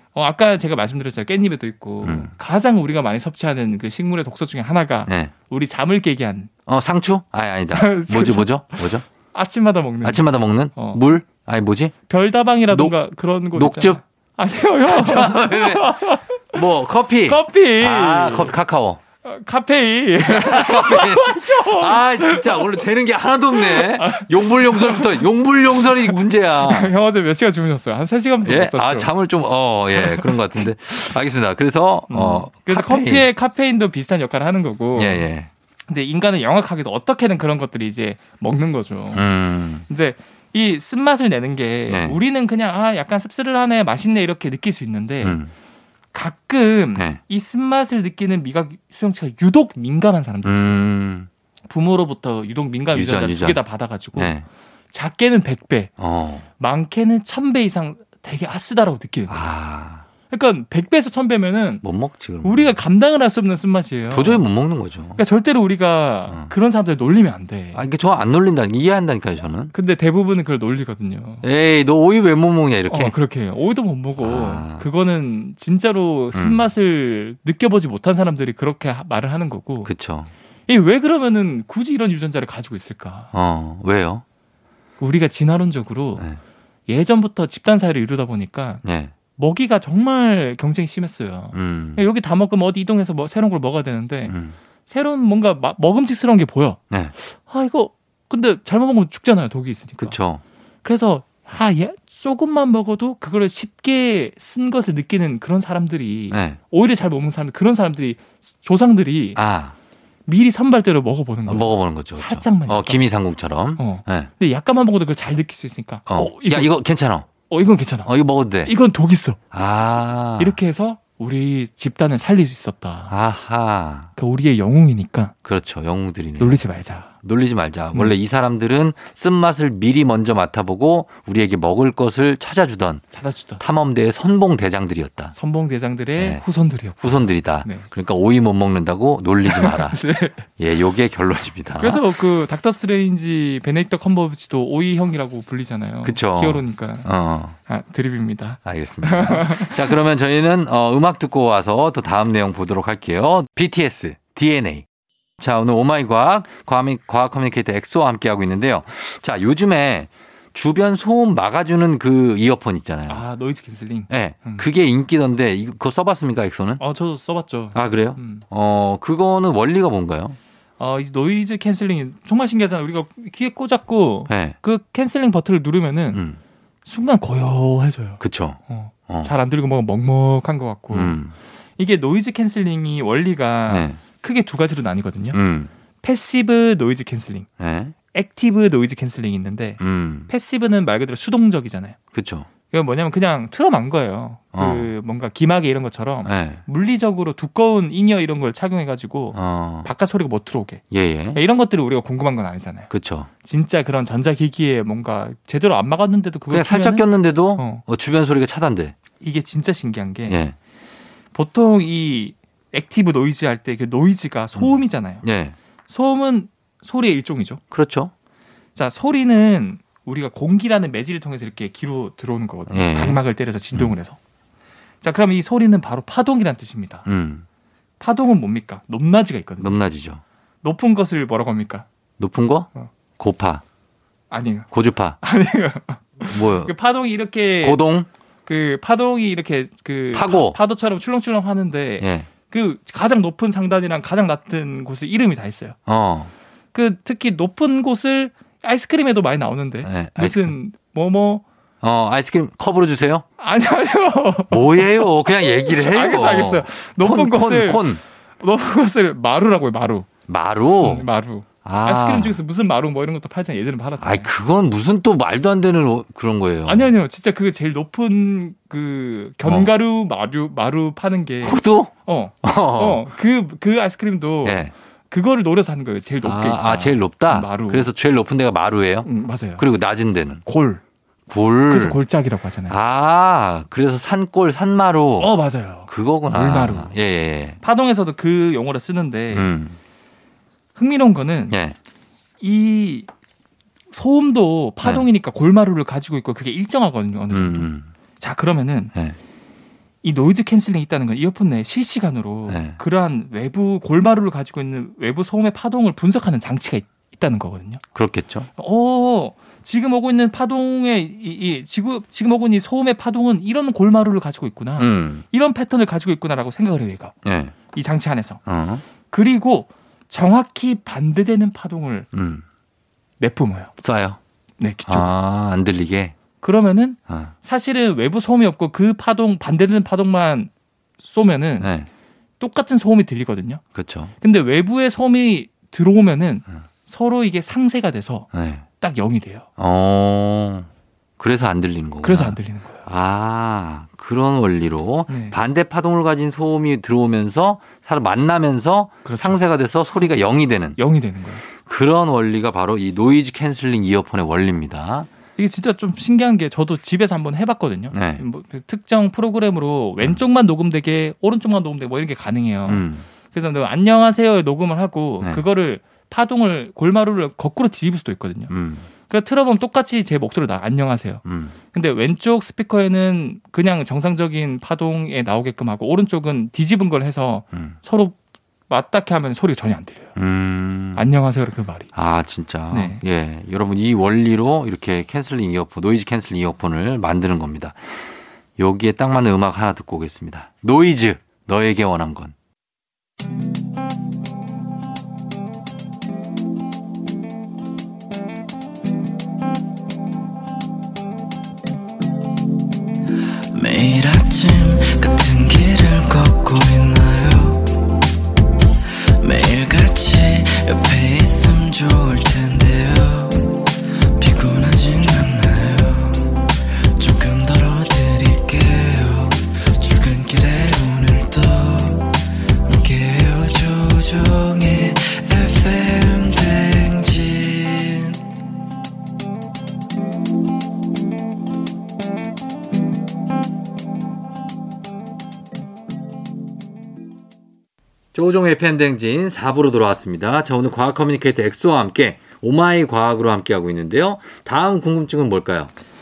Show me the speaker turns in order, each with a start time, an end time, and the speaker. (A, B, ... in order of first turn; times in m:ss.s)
0:00.2-0:06.5 A
0:02.0-0:02.3 B
0:05.1-0:05.3 B
0:06.7-0:09.0 B
0:07.7-0:10.2 A
0:10.0-0:11.9 B
0:10.8-0:11.0 A
0:12.1-0:16.6 A
0:13.5-0:14.0 B
0:14.9-0:19.0 B
0:17.2-0:18.6 A
0:19.2-0:22.8 A
0:20.2-0:26.9 B
0:23.5-0:29.1 A
0:28.4-0:33.3 B
0:29.9-0:31.1 A
0:32.1-0:35.3 A
0:35.0-0:35.5 B
0:35.9-0:39.3 A
0:39.1-0:39.8 B
0:39.9-0:45.4 A
0:41.9-0:42.2 B
0:45.2-0:45.5 B
0:46.1-0:50.8 A
0:50.4-0:51.3 B
0:51.7-0:54.4 A
0:52.9-0:53.6 B
0:54.2-0:54.5 B
0:54.9-0:55.9 A
0:56.0-0:56.4 B
0:56.6-0:59.5 A
0:59.3-1:00.0 B
1:00.3-1:01.8 A
1:01.8-1:02.7 B
1:02.4-1:04.4 A
1:04.1-1:05.2 B
1:05.2-1:07.8 A
1:07.7-1:09.7 B
1:09.7-1:11.4 A
1:11.4-1:13.2 B
1:12.9-1:19.9 A
1:14.2-1:14.9 B
1:16.3-1:16.6 B
1:19.8-1:20.3 B
1:20.7-1:23.3 A
1:23.3-1:24.2 B
1:25.0-1:26.3 A
1:26.9-1:28.8 A
1:28.8-1:29.1 B
1:29.4-1:34.4 A
1:31.5-1:32.1 B
1:34.3-1:34.6 B
1:34.9-1:40.2 A
1:40.0-1:40.4 B
1:40.8-1:49.4 A
1:46.3-1:46.6 B
1:49.4-1:49.8 B
1:50.3-1:53.0 A
1:51.5-1:54.3 B
1:53.8-1:56.7 A
1:56.1-1:57.3 B
1:57.5-1:58.1 A
1:58.0-1:58.7 B
1:58.6-1:59.4 A
1:59.5-2:00.6 B
2:00.4-2:03.1 A
2:03.1-2:04.1 B
2:04.2-2:05.3 A
2:05.4-2:06.6 B
2:06.4-2:07.1 A
2:07.2-2:13.0 B
2:13.1-2:13.6 A
2:13.6-2:15.4 B
2:15.4-2:17.9 A
2:16.2-2:16.4 B
2:17.0-2:20.0 B
2:19.5-2:20.5 A
2:20.6-2:22.0 B
2:21.8-2:27.1 A
2:26.0-2:27.6 B
2:27.7-2:30.0 A
2:28.6-2:34.8 B
2:35.4-2:43.2 B
2:43.1-2:44.6 A
2:44.1-2:46.8 B
2:46.8-2:48.4 A
2:47.7-2:50.4 B
2:50.8-2:56.2 A
2:54.3-2:54.6 B
2:56.1-2:56.4 B
2:56.8-3:01.2 A
2:58.2-2:59.3 B
3:00.9-3:01.3 B
3:01.8-3:05.4 A
3:03.7-3:04.0 B
3:05.3-3:05.7 B
3:06.0-3:07.5 A
3:07.6-3:07.9 B
3:08.1-3:12.0 A
3:09.8-3:10.3 B
3:12.1-3:12.5 B
3:12.7-3:20.8 A
3:14.5-3:14.9 B
3:16.2-3:16.6 B
3:19.3-3:19.9 B
3:20.9-3:21.4 B
3:21.3-3:22.9 A
3:22.9-3:23.3 B
3:23.4-3:27.8 A
3:26.5-3:29.0 B
3:29.2-3:30.4 A
3:30.3-3:30.6 B
3:31.3-3:35.2 A
3:34.6-3:35.6 B
3:35.9-3:37.6 A
3:37.7-3:38.1 B
3:38.8-3:44.2 A
3:42.7-3:43.2 B
3:45.0-3:47.1 A
3:47.1-3:47.4 B
3:48.0-3:49.8 A
3:49.6-3:50.2 B
3:50.6-3:51.9 A
3:52.2-3:53.6 B
3:54.3-3:54.7 A
3:54.7-3:55.2 B
3:55.2-3:57.8 A
3:56.3-3:56.7 B
3:57.6-3:58.1 B
3:58.5-4:05.8 A
4:00.1-4:00.6 B
4:02.0-4:02.3 B
4:05.9-4:06.3 B
4:06.7-4:11.4 A
4:09.8-4:10.5 B
4:11.8-4:13.2 B
4:13.4-4:17.8 A
4:14.5-4:18.0 B
4:18.4-4:20.1 A
4:20.3-4:21.1 B
4:20.8-4:24.3 A
4:21.6-4:22.4 B
4:24.0-4:26.9 B
4:26.6-4:37.9 A
4:29.4-4:29.7 B
4:31.4-4:33.0 B
4:34.4-4:34.7 B
4:36.2-4:40.4 B
4:39.0-4:39.6 A
4:40.5-4:40.8 A
4:41.3-4:42.0 B
4:41.7-4:42.8 A
4:42.7-4:45.3 B
4:45.2-4:46.9 A
4:45.9-4:47.6 B
4:47.6-4:49.5 A
4:49.3-4:49.8 B
4:50.8-4:51.6 A
4:51.5-4:51.8 B
4:52.4-4:53.1 A
4:53.9-4:58.9 A
4:57.3-4:57.9 B
5:00.0-5:07.8 A
5:02.5-5:02.8 B
5:07.9-5:08.5 B
5:08.6-5:17.1 A
5:14.8-5:15.2 B
5:17.2-5:17.6 B
5:17.7-5:18.4 A
5:18.5-5:18.8 B
5:19.1-5:22.1 A
5:22.1-5:22.4 B
5:23.2-5:23.7 A
5:23.8-5:24.2 B
5:24.6-5:25.1 A
5:24.9-5:26.2 B
5:26.4-5:30.5 A
5:31.0-5:31.7 A
5:31.6-5:31.9 B
5:32.4-5:33.6 A
5:33.8-5:34.1 B
5:34.2-5:38.3 A
5:38.3-5:38.6 B
5:38.8-5:39.5 A
5:39.6-5:40.7 B
5:41.2-5:50.8 B
5:42.0-5:42.8 A
5:45.1-5:45.4 A
5:49.0-5:49.4 A
5:50.8-5:51.4 A
5:51.5-5:55.1 B
5:55.4-6:08.5 A
5:57.9-5:58.2 B
6:02.7-6:03.0 B
6:08.5-6:08.9 B
6:09.1-6:18.2 A
6:11.2-6:11.5 B
6:18.7-6:20.2 A
6:20.2-6:21.1 B
6:21.0-6:21.9 A
6:21.9-6:32.4 B
6:22.7-6:23.0 A
6:43.5-6:47.7 C
6:49.2-7:08.2 C
7:18.1-7:25.7 B